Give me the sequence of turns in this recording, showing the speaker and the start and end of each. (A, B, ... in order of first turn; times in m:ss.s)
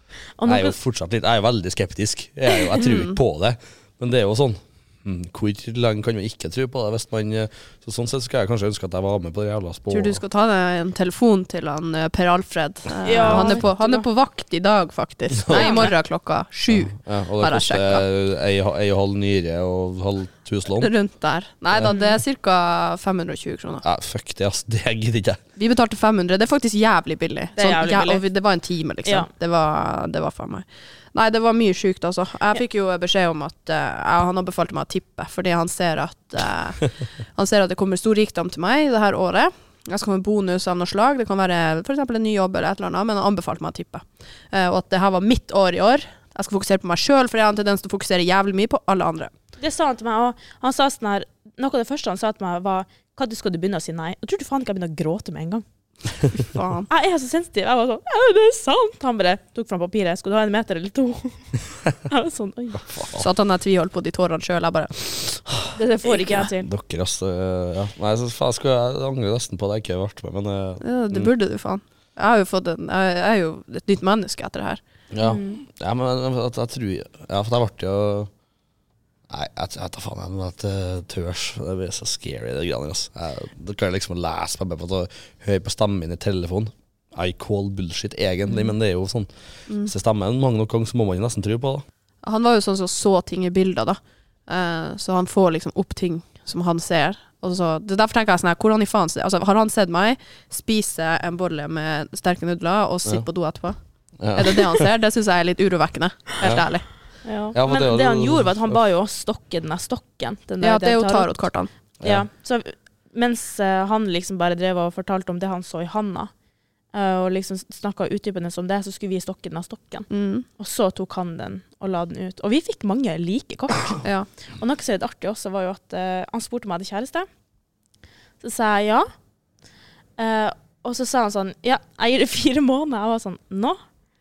0:00.4-0:00.8 A
0:00.4-0:10.2 B
0:02.8-0:03.2 C
0:09.9-0:18.0 C
0:13.0-0:14.0 A
0:15.3-0:15.7 B
0:15.5-0:15.9 A
0:16.7-0:20.9 B
0:20.8-0:23.8 C
0:21.8-0:22.2 A
0:23.8-0:25.4 B
0:25.6-0:49.3 C
0:27.6-0:28.2 A
0:49.6-0:55.6 A
0:56.4-0:56.9 C
0:56.9-1:02.8 A
1:02.8-1:03.2 B
1:03.1-1:06.5 C
1:05.8-1:06.7 A
1:06.6-1:11.3 B
1:10.8-1:14.8 C
1:15.1-1:18.3 B
1:15.2-1:15.6 A
1:19.3-1:29.3 B
1:29.8-1:31.8 B
1:32.2-1:43.8 C
1:44.2-1:44.9 B
1:44.3-1:46.8 C
1:47.2-1:51.3 A
1:47.5-1:48.8 B
1:50.6-1:51.7 C
1:52.0-1:56.3 A
1:56.9-2:07.3 A
2:00.1-2:00.4 C
2:08.4-2:09.1 A
2:10.2-2:13.8 A